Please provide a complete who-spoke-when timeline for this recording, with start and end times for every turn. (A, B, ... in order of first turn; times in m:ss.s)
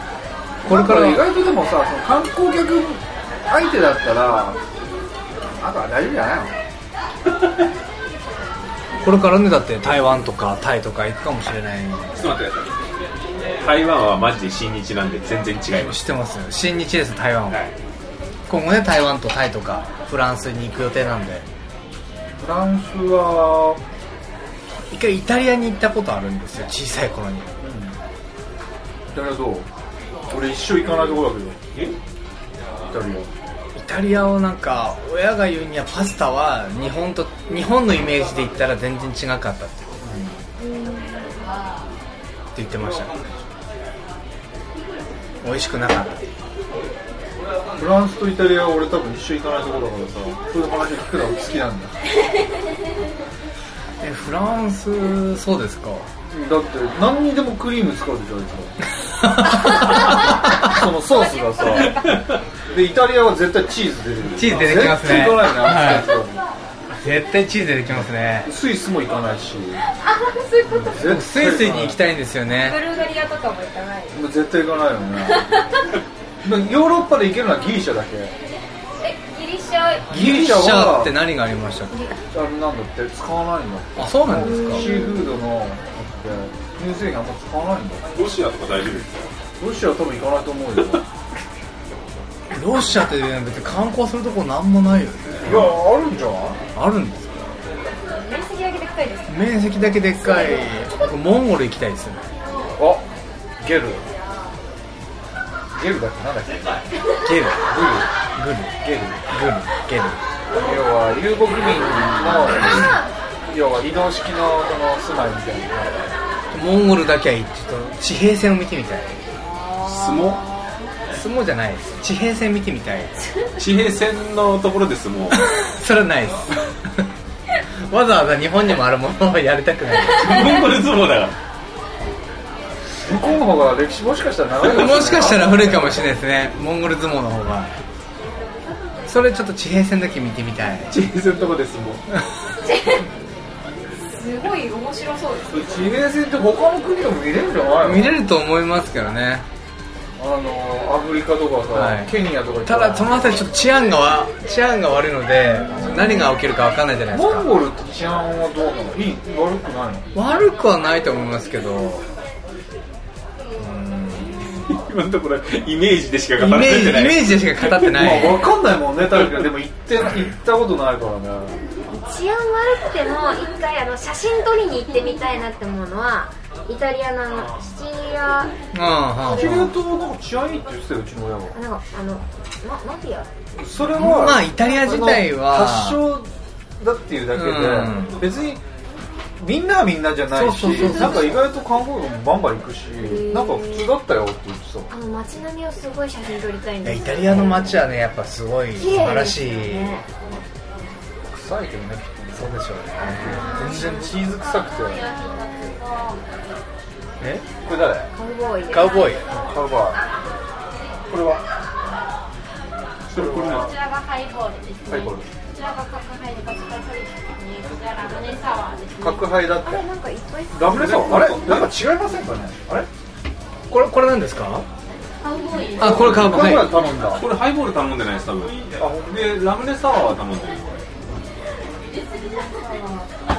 0:00.6-0:04.6 A
0:00.6-0:01.2 B
0:05.6-0:06.6 A
0:09.0-0:12.2 B
0:12.1-0:12.8 C
0:13.6-0:16.0 C
0:15.7-0:17.6 B
0:18.5-0:21.5 B
0:22.4-0:23.8 A
0:24.9-0:27.5 B
0:27.6-0:28.0 A
0:29.1-0:29.7 A
0:30.3-0:31.6 A
0:32.9-0:33.3 A
0:33.8-0:39.9 B
0:40.0-0:40.4 A
0:40.6-0:41.6 D
0:42.5-0:43.1 B
0:45.4-0:46.3 B
0:47.8-0:51.9 A
0:54.0-0:56.1 B
0:56.3-0:58.7 A
0:59.1-1:00.8 B
1:00.3-1:02.0 A
1:01.4-1:02.0 D
1:01.8-1:02.4 C
1:02.7-1:06.4 A
1:04.3-1:06.1 B
1:06.9-1:08.5 B
1:07.9-1:09.8 A
1:09.9-1:11.0 D
1:10.6-1:12.0 A
1:11.0-1:12.8 B
1:12.6-1:14.2 D
1:14.1-1:15.5 A
1:15.4-1:15.8 D
1:16.4-1:18.4 A
1:19.0-1:20.1 D
1:20.1-1:22.0 B
1:20.1-1:21.2 A
1:22.3-1:28.1 A
1:24.0-1:24.9 B
1:24.4-1:25.4 D
1:28.1-1:29.3 C
1:29.6-1:31.0 A
1:32.5-1:35.8 B
1:35.4-1:36.6 A
1:36.8-1:37.5 B
1:38.0-1:40.9 D
1:39.3-1:42.3 B
1:42.8-1:43.0 A
1:43.6-1:44.0 A
1:45.7-1:46.7 A
1:47.2-1:47.6 B
1:47.7-1:48.1 A
1:48.4-1:48.8 B
1:48.8-1:49.2 A
1:49.3-1:50.2 B
1:50.5-1:56.1 A
1:51.9-1:52.6 C
1:52.6-1:53.1 D
1:56.5-1:59.2 B
1:59.5-2:00.7 D
1:59.8-2:00.4 C
2:01.1-2:03.2 B
2:03.6-2:05.4 C
2:05.5-2:07.1 B
2:07.8-2:10.5 B
2:10.1-2:11.4 C
2:13.0-2:16.0 A
2:14.6-2:17.7 B
2:19.1-2:21.0 B
2:20.9-2:22.0 C
2:22.6-2:23.0 D
2:24.1-2:25.8 D
2:25.5-2:28.1 A
2:27.8-2:29.4 B
2:30.2-2:33.4 A
2:31.7-2:32.1 B
2:32.6-2:37.5 B
2:35.6-2:36.3 A
2:37.1-2:40.1 A
2:40.1-2:42.0 B
2:43.6-2:44.6 B
2:44.7-2:47.9 C
2:46.4-2:48.5 B
2:47.9-2:51.6 A
2:49.1-2:49.5 C
2:51.9-2:58.5 D
2:58.7-2:59.7 B
2:59.2-3:01.6 A
3:01.5-3:03.3 D
3:03.5-3:08.6 A
3:03.8-3:06.0 B
3:07.3-3:08.2 B
3:09.4-3:14.9 A
3:10.3-3:11.4 B
3:10.8-3:11.4 D
3:13.0-3:13.9 D
3:14.9-3:17.7 D
3:16.8-3:20.0 B
3:18.8-3:20.0 D
3:21.3-3:25.1 A
3:22.3-3:24.1 B
3:23.3-3:24.2 D
3:23.6-3:26.3 E
3:27.2-3:27.4 B
3:27.6-3:28.1 A
3:28.1-3:29.2 D
3:28.7-3:29.2 B
3:29.3-3:30.0 A
3:31.1-3:31.4 A
3:33.1-3:33.7 C
3:33.1-3:33.7 A
3:33.5-3:39.3 E
3:34.9-3:35.3 A
3:39.0-3:39.8 A
3:39.6-3:41.0 D
3:40.5-3:42.9 A
3:40.6-3:41.7 C
3:43.7-3:44.6 B
3:45.2-3:46.2 E
3:45.8-3:46.7 B
3:45.8-3:47.2 A
3:46.0-3:50.8 C
3:48.7-3:49.2 A
3:52.4-3:53.1 E